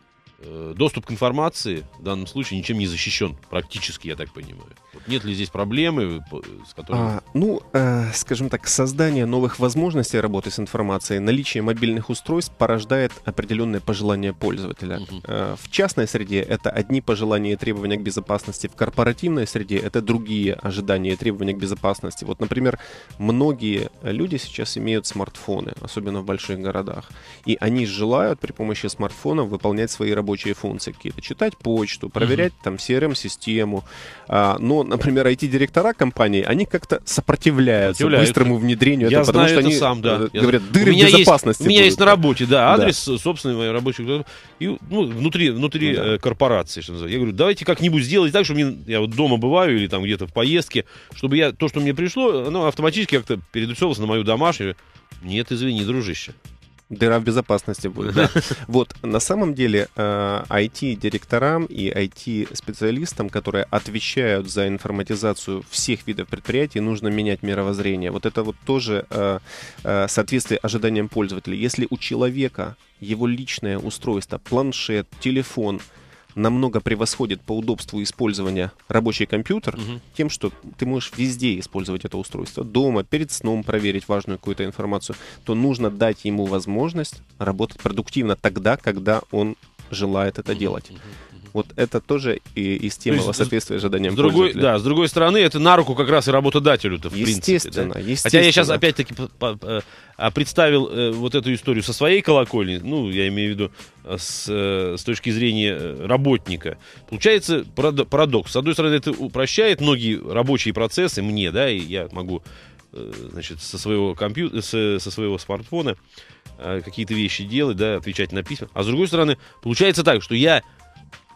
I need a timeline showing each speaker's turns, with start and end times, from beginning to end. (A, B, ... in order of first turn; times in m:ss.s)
0:00.4-0:07.2 A
0:06.9-0:42.9 B
0:15.0-0:15.2 A
0:32.2-0:32.5 A
0:37.8-0:56.4 A
0:45.8-0:46.1 B
0:56.9-1:15.8 B
0:58.0-0:58.5 A
1:16.4-1:31.0 B
1:31.5-1:34.7 B
1:33.1-1:33.5 A
1:34.1-1:56.0 A
1:37.1-1:38.8 B
1:56.6-2:00.6 A